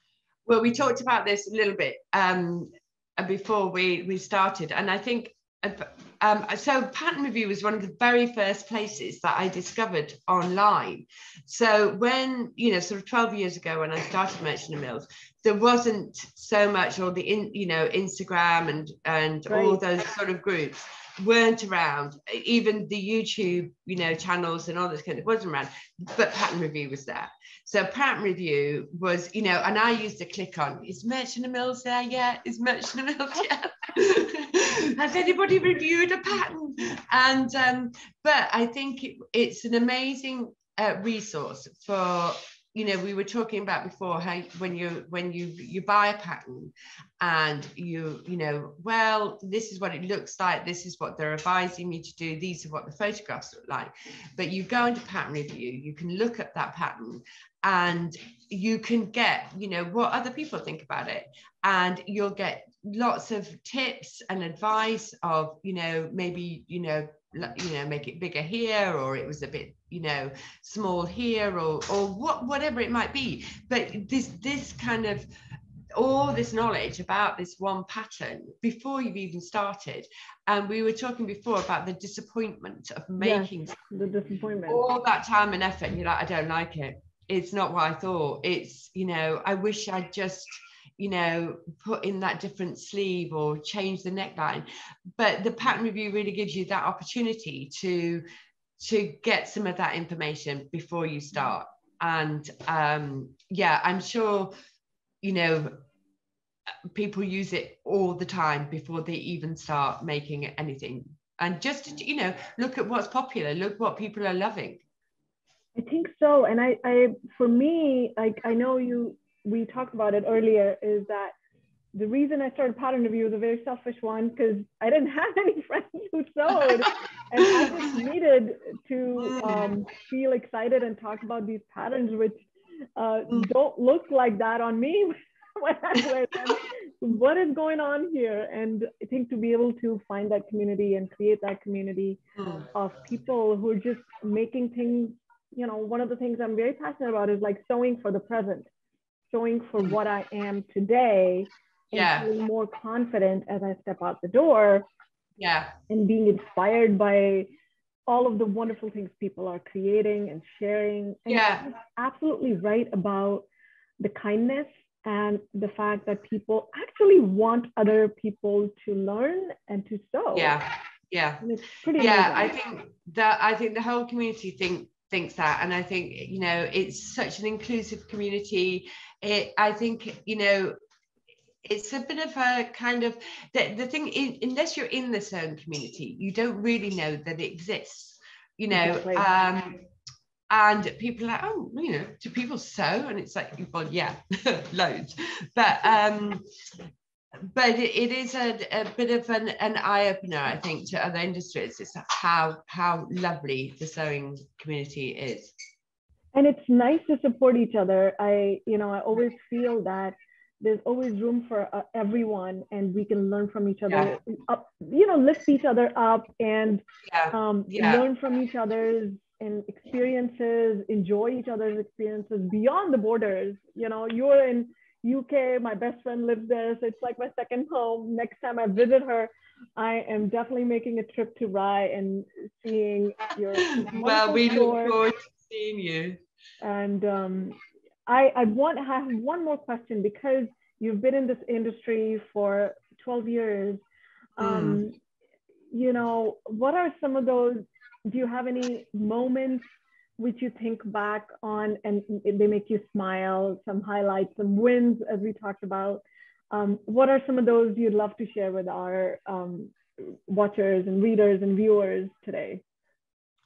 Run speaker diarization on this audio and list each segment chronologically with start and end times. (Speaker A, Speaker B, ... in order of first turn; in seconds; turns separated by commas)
Speaker A: 0.5-75.3, Speaker B: 19.5-19.8, Speaker A: 75.9-83.8, Speaker B: 83.2-84.8, Speaker A: 84.7-94.6, Speaker A: 95.2-98.2, Speaker A: 98.8-104.5, Speaker A: 105.2-105.7, Speaker A: 106.9-114.8, Speaker B: 115.8-121.3, Speaker B: 121.9-148.7, Speaker A: 126.6-126.9, Speaker A: 129.2-129.7, Speaker A: 142.4-142.6, Speaker B: 149.3-154.9, Speaker A: 151.9-152.3, Speaker A: 155.4-155.7, Speaker B: 155.9-157.5, Speaker B: 158.1-163.4, Speaker A: 161.3-161.6, Speaker B: 164.0-170.6, Speaker A: 170.3-171.4, Speaker B: 171.4-172.5, Speaker A: 171.9-180.8, Speaker A: 181.6-189.8, Speaker B: 188.7-189.3, Speaker A: 190.5-196.4, Speaker A: 197.5-205.5, Speaker B: 206.3-235.0, Speaker A: 217.1-218.0, Speaker A: 233.7-236.2, Speaker B: 236.6-243.8, Speaker B: 244.4-245.0, Speaker A: 244.4-244.8, Speaker B: 245.7-249.6, Speaker B: 250.2-262.6